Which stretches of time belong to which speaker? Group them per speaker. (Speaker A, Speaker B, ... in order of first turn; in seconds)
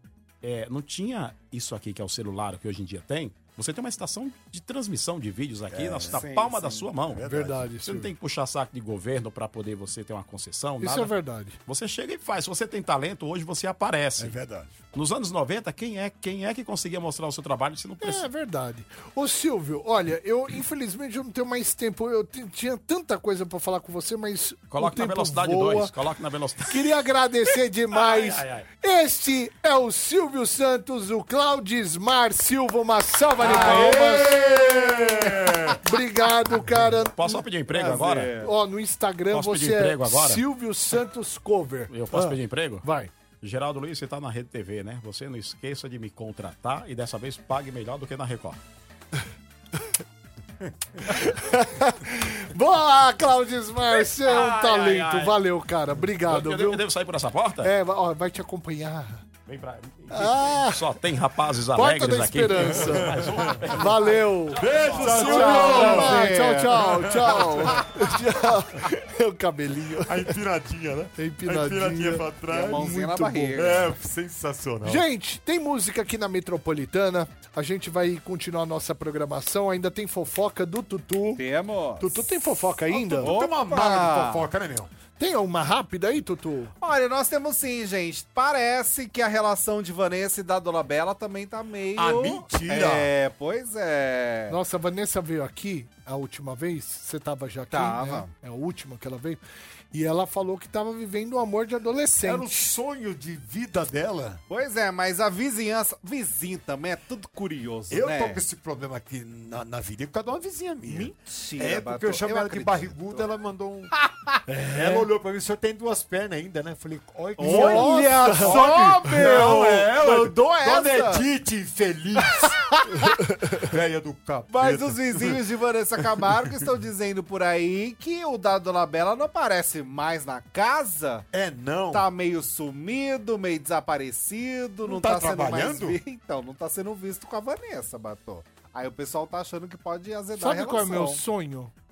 Speaker A: 0.4-7.3, 7.8-14.4, 14.9-18.3, 24.7-28.7, 37.0-38.4, 39.3-40.5, 41.9-42.9, 43.4-48.6, 53.9-55.4, 56.1-57.7, 59.5-66.0
Speaker B: 5.7-6.2, 7.1-7.7, 14.2-14.8, 33.4-35.8, 62.8-63.6, 64.6-66.3, 67.0-67.7, 70.0-75.0, 83.0-84.9, 92.0-93.1, 102.2-104.4, 107.9-113.9, 114.7-122.5, 123.4-125.4, 131.3-132.1, 134.8-136.0
Speaker C: 6.1-6.9, 33.5-35.7, 37.7-38.5, 65.1-67.9, 72.5-74.0, 81.4-82.2, 83.0-84.5, 86.8-94.6, 97.7-98.3, 104.5-108.4, 110.9-113.3, 117.4-121.3, 122.2-122.8, 124.5-131.3, 131.9-141.2
Speaker D: 7.2-8.1, 10.8-11.6, 18.0-25.9, 26.7-34.4, 35.8-43.1, 51.1-56.8, 57.6-59.2, 60.1-60.9, 61.7-70.3, 71.2-72.3, 74.8-81.4, 82.0-83.4, 85.2-86.7, 94.5-99.4, 99.9-102.5, 114.5-115.1, 117.4-118.8, 140.4-141.7